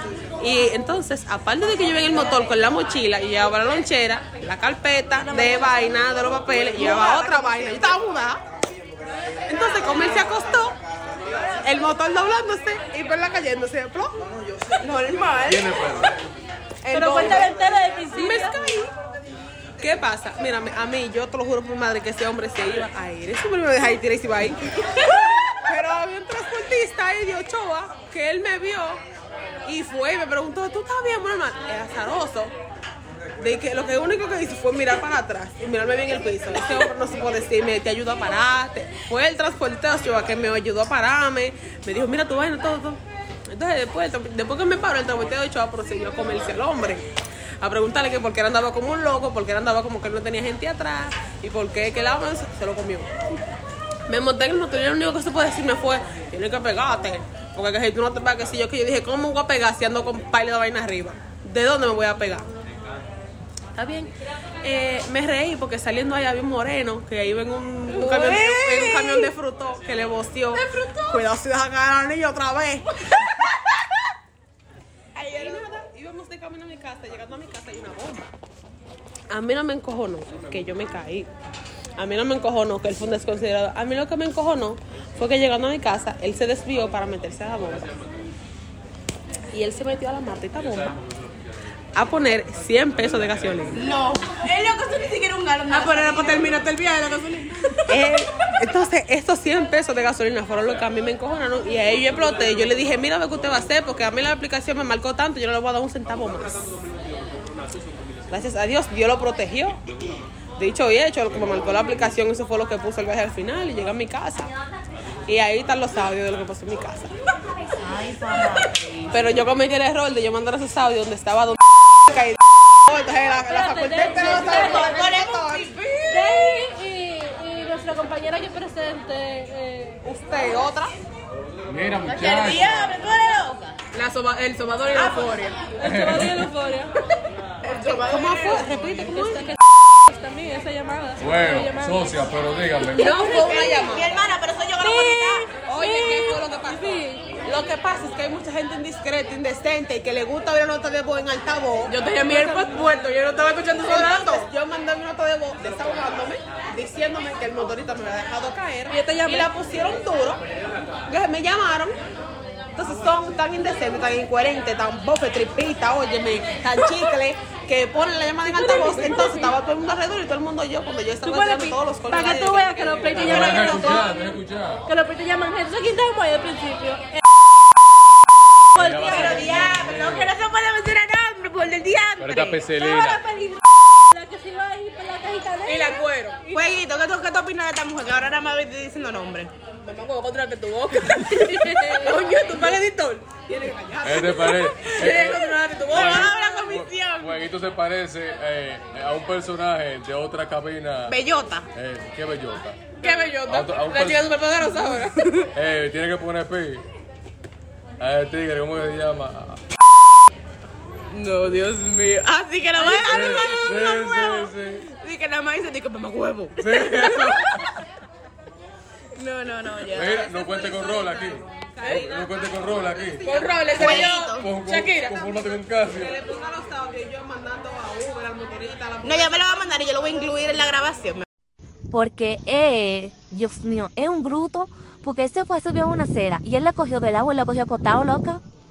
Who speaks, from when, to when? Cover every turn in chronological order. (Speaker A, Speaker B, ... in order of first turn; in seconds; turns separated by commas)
Speaker A: 0.4-8.4, Speaker B: 5.3-5.8, Speaker B: 6.8-8.0, Speaker A: 9.5-10.8, Speaker A: 11.4-14.2, Speaker B: 14.8-15.9, Speaker C: 15.5-16.1, Speaker B: 16.8-17.6, Speaker D: 16.9-18.6, Speaker A: 17.1-17.5, Speaker A: 18.1-18.9, Speaker A: 19.8-29.0, Speaker A: 29.6-32.5, Speaker A: 33.4-47.0, Speaker A: 47.6-53.1, Speaker A: 54.1-62.5, Speaker A: 63.8-72.9, Speaker B: 67.9-69.3, Speaker D: 70.8-71.1, Speaker B: 75.2-75.7, Speaker A: 75.3-78.3, Speaker A: 79.3-81.3, Speaker A: 82.0-87.9, Speaker A: 89.5-91.0, Speaker A: 91.9-93.8, Speaker B: 93.7-96.5, Speaker E: 95.7-98.0, Speaker B: 97.9-98.3, Speaker A: 97.9-106.7, Speaker A: 108.3-109.8, Speaker A: 110.6-114.5, Speaker A: 115.3-117.1, Speaker B: 117.8-119.2, Speaker A: 119.1-125.8, Speaker D: 123.3-125.0, Speaker B: 124.2-126.0, Speaker D: 126.1-130.0, Speaker A: 130.0-130.9, Speaker C: 131.7-133.0, Speaker B: 132.1-133.8, Speaker E: 133.9-135.6, Speaker B: 134.9-135.5, Speaker D: 135.8-136.9, Speaker C: 135.8-136.5, Speaker B: 137.6-138.8, Speaker A: 137.9-139.6, Speaker D: 139.1-142.1, Speaker C: 141.2-143.1, Speaker B: 143.0-145.5, Speaker A: 143.0-144.1, Speaker E: 143.0-144.1, Speaker D: 143.1-143.6, Speaker D: 144.8-147.4, Speaker A: 145.5-151.9, Speaker E: 151.9-154.5, Speaker D: 152.3-152.9, Speaker A: 153.8-160.4, Speaker D: 158.9-159.5, Speaker A: 161.1-162.0, Speaker A: 162.8-174.1, Speaker D: 168.5-169.5, Speaker D: 171.2-174.1, Speaker C: 173.2-174.8, Speaker D: 174.9-177.2, Speaker D: 178.7-179.6, Speaker C: 178.8-180.3, Speaker B: 178.8-182.7, Speaker C: 182.2-183.2, Speaker D: 182.8-186.6, Speaker E: 185.7-186.4, Speaker B: 186.5-189.5, Speaker E: 189.8-193.3, Speaker D: 191.4-192.2, Speaker A: 193.5-194.7, Speaker C: 194.0-201.2, Speaker E: 194.0-196.4, Speaker B: 195.9-197.5, Speaker B: 201.1-201.7, Speaker C: 201.7-202.8, Speaker E: 203.0-205.5, Speaker C: 203.4-204.3, Speaker C: 205.5-206.8, Speaker C: 208.0-209.6, Speaker B: 211.1-217.7, Speaker C: 212.8-214.9, Speaker C: 216.6-217.7, Speaker B: 219.1-220.3, Speaker C: 219.9-226.2, Speaker A: 220.0-224.0, Speaker E: 221.8-222.1, Speaker E: 223.2-225.2, Speaker B: 223.7-224.5, Speaker A: 224.9-230.3, Speaker B: 229.0-231.2, Speaker F: 231.9-238.4